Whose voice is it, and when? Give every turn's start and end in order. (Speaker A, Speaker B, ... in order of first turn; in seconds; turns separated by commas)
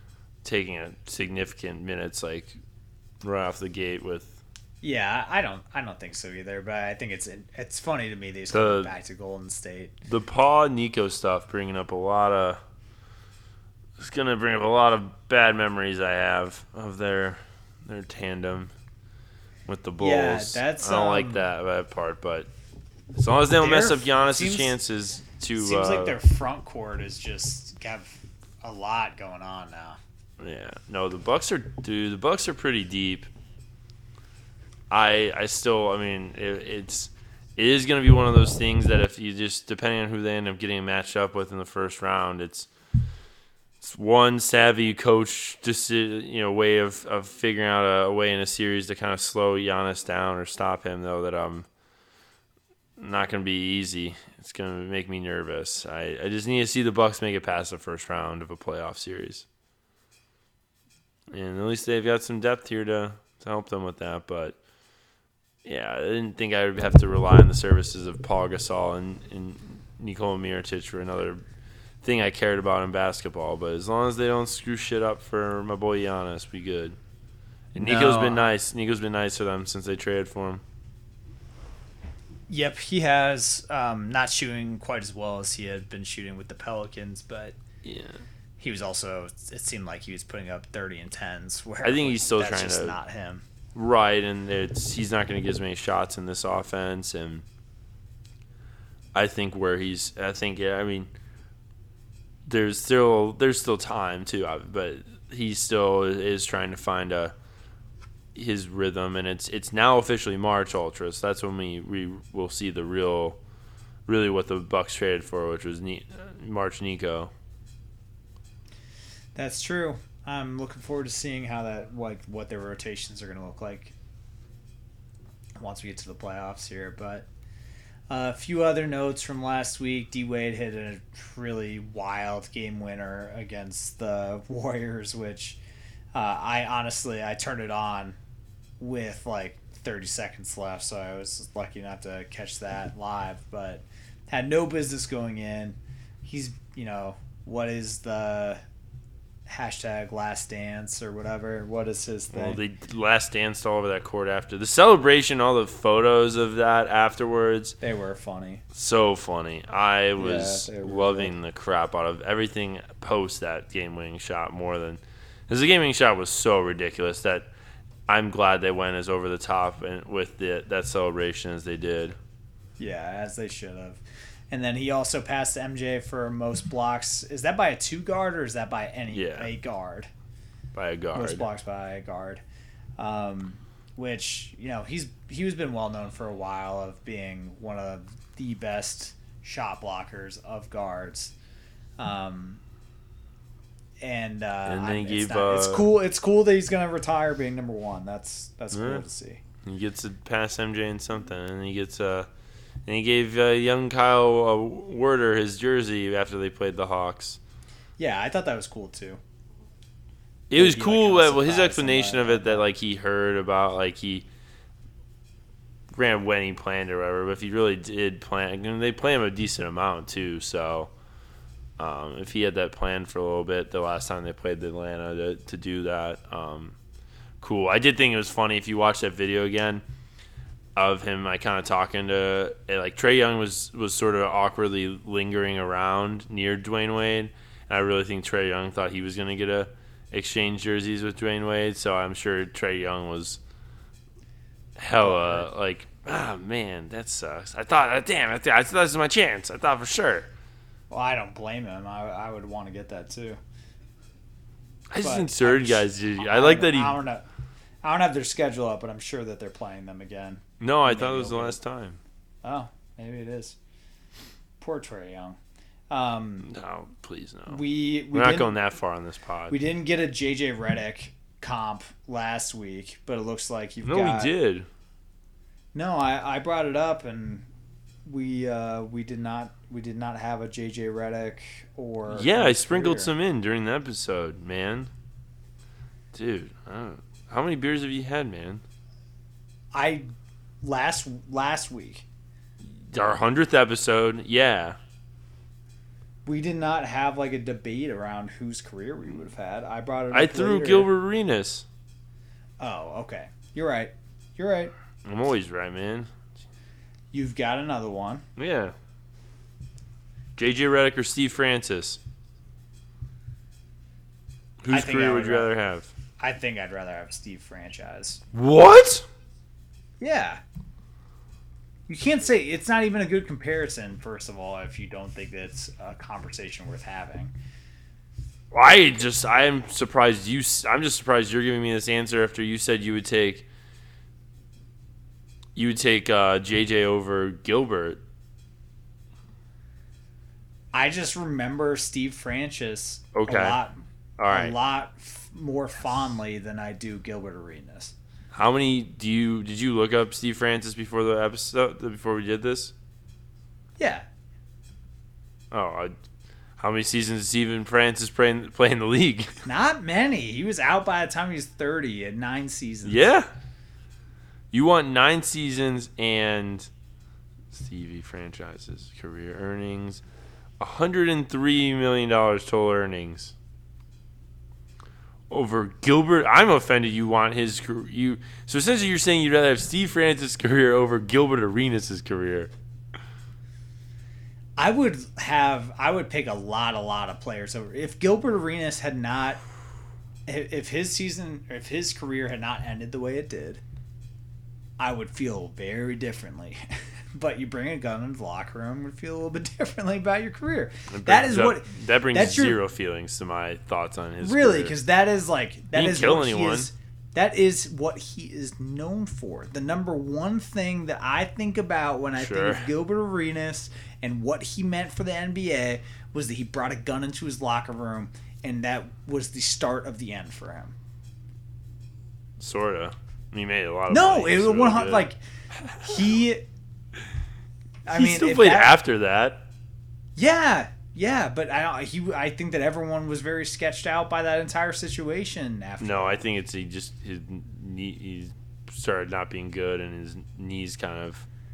Speaker A: 0.4-2.6, Speaker A: 3.2-4.4, Speaker B: 4.8-10.0, Speaker A: 8.5-8.9, Speaker A: 10.1-12.6, Speaker A: 14.0-18.7, Speaker A: 19.6-22.5, Speaker B: 20.0-21.4, Speaker A: 23.1-26.2, Speaker B: 23.6-24.7, Speaker B: 25.6-30.0, Speaker A: 30.4-33.3, Speaker A: 34.9-42.7, Speaker A: 43.8-51.7, Speaker A: 53.0-59.4, Speaker A: 61.3-64.6, Speaker A: 65.6-71.4, Speaker A: 72.0-77.0, Speaker A: 77.7-80.6, Speaker B: 77.8-78.5, Speaker B: 82.5-87.5, Speaker A: 87.8-88.2, Speaker B: 88.6-93.4, Speaker A: 91.8-93.0, Speaker A: 93.7-97.4, Speaker A: 99.1-101.1, Speaker A: 102.5-107.3, Speaker A: 108.3-113.4, Speaker A: 114.0-117.3, Speaker B: 119.3-123.9, Speaker B: 125.6-127.3, Speaker B: 128.1-135.6, Speaker B: 136.1-138.2, Speaker B: 138.8-148.6, Speaker B: 149.5-152.6, Speaker A: 152.3-157.8, Speaker B: 157.8-158.6, Speaker A: 158.7-167.5, Speaker B: 160.2-161.3, Speaker A: 168.1-172.2, Speaker B: 172.8-180.1, Speaker A: 179.1-179.5, Speaker A: 180.7-181.5, Speaker B: 181.1-182.4, Speaker B: 183.0-191.3, Speaker B: 192.0-192.6, Speaker B: 194.0-199.4, Speaker A: 194.6-195.9, Speaker A: 198.7-199.0, Speaker A: 199.6-202.3, Speaker A: 202.8-207.4, Speaker B: 208.0-209.2, Speaker A: 210.5-214.3, Speaker B: 210.5-212.7, Speaker A: 215.9-220.9, Speaker A: 221.8-226.8, Speaker A: 227.4-229.8, Speaker A: 230.8-243.4, Speaker A: 244.8-250.3, Speaker B: 245.0-245.5, Speaker B: 250.9-253.4, Speaker A: 254.9-257.0, Speaker B: 255.0-257.2, Speaker B: 257.8-261.6, Speaker A: 260.6-262.0, Speaker B: 262.4-263.6, Speaker B: 264.6-265.4, Speaker B: 265.9-266.5, Speaker A: 266.4-267.6, Speaker B: 267.5-268.5, Speaker A: 268.1-269.6, Speaker B: 269.5-274.3, Speaker A: 273.8-274.7, Speaker B: 275.7-277.5, Speaker B: 278.0-283.1, Speaker A: 282.1-284.9, Speaker A: 286.1-288.6, Speaker B: 289.7-290.1, Speaker B: 290.6-292.1, Speaker A: 292.6-294.8, Speaker B: 296.2-300.9, Speaker A: 300.1-301.6, Speaker B: 302.6-304.7, Speaker A: 305.0-306.1, Speaker B: 307.1-308.2, Speaker A: 308.4-308.8, Speaker A: 310.4-312.0, Speaker A: 314.6-315.9, Speaker B: 314.7-315.5, Speaker B: 316.2-318.2, Speaker A: 318.3-319.1, Speaker B: 320.0-320.4, Speaker B: 321.9-327.3, Speaker A: 328.5-333.5, Speaker A: 335.5-338.0, Speaker B: 340.7-347.9, Speaker A: 343.1-343.6, Speaker A: 344.2-344.5, Speaker A: 348.3-352.7, Speaker B: 353.8-354.1, Speaker A: 355.5-355.9, Speaker A: 356.6-359.4, Speaker B: 359.4-363.1, Speaker A: 362.8-363.3, Speaker A: 364.5-366.7, Speaker A: 367.5-370.0, Speaker A: 370.6-373.3, Speaker A: 375.3-382.5, Speaker B: 384.6-389.4, Speaker B: 390.3-393.6, Speaker B: 394.8-396.6, Speaker B: 397.1-402.6, Speaker A: 400.9-404.7, Speaker B: 404.2-420.7, Speaker A: 405.7-406.7, Speaker A: 412.1-412.7, Speaker A: 422.4-425.1, Speaker B: 423.9-426.4, Speaker B: 427.9-428.7, Speaker A: 427.9-429.4, Speaker B: 430.2-436.2, Speaker A: 435.8-441.2